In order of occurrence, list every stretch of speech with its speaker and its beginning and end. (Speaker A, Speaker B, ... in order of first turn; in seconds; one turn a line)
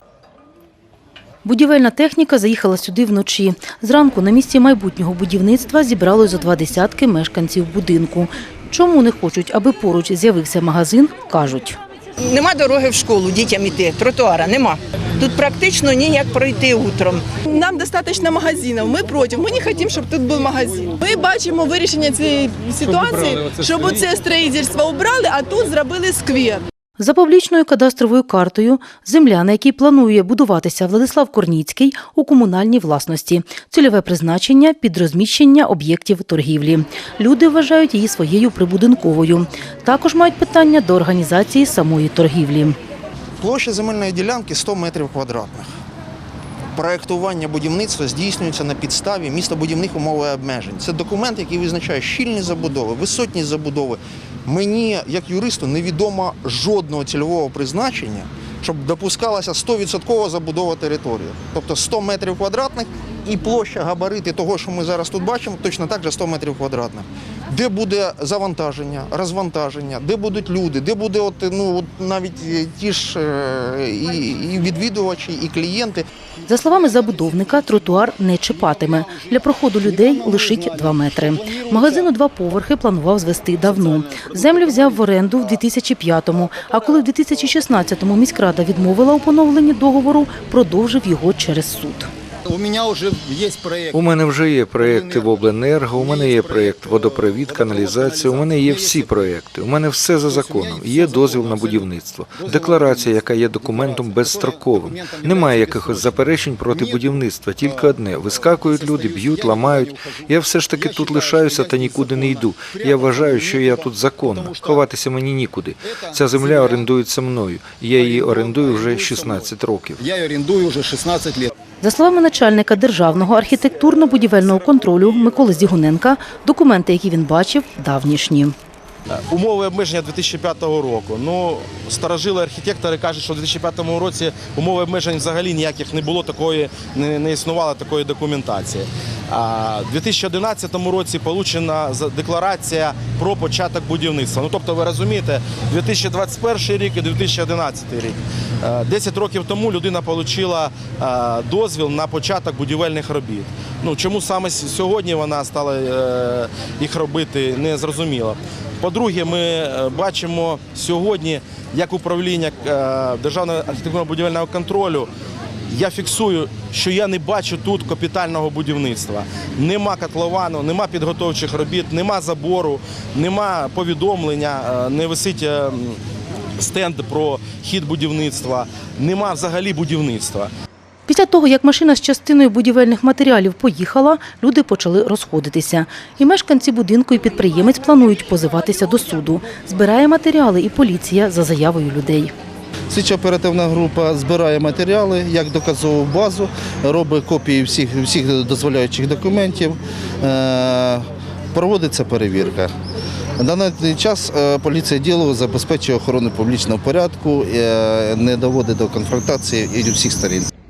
Speaker A: 1.4-11.8
Speaker B: 12.2-17.3
Speaker C: 17.4-26.6
Speaker A: 27.0-42.8
Speaker D: 43.4-45.7
Speaker D: 46.7-76.0
Speaker A: 76.5-92.1
Speaker E: 92.5-92.9
Speaker F: 93.9-120.0
Speaker E: 96.3-97.0
Speaker E: 97.6-99.2
Speaker E: 100.6-101.7
Speaker E: 105.0-105.9
Speaker E: 109.1-109.3
Speaker A: 121.8-128.6
Speaker G: 129.1-165.1
Speaker G: 165.7-176.0
Speaker G: 176.6-180.5
Speaker A: 181.1-192.3
Speaker H: 192.9-202.7
Speaker H: 203.4-210.5